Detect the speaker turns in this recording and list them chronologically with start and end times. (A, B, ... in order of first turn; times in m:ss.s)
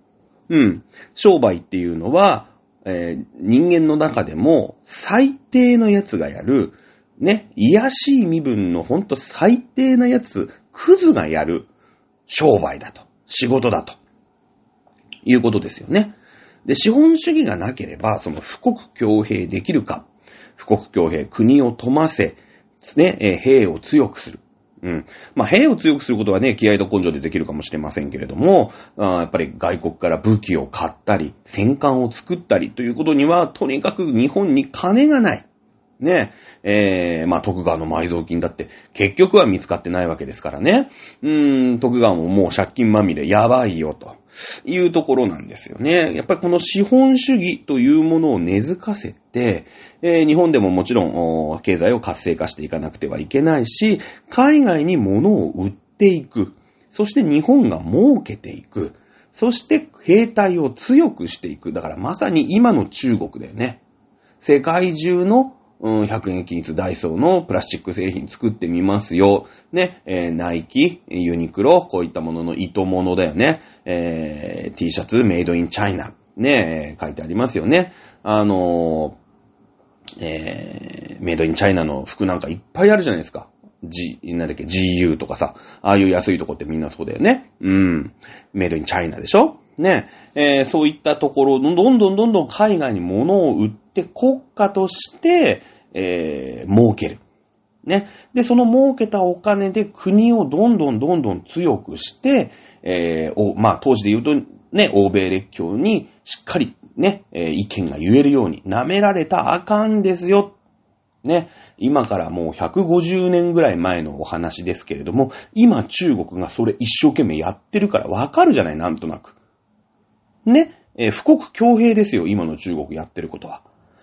0:00.5-0:11.7 A
0:12.3-0:14.0 A
0:15.2-0:35.4 A
0:36.0-1:03.8 A
1:04.4-1:19.2 A
1:20.2-1:37.2 A
1:37.8-1:50.6 A
1:51.2-1:59.4 A
2:00.5-2:03.6 A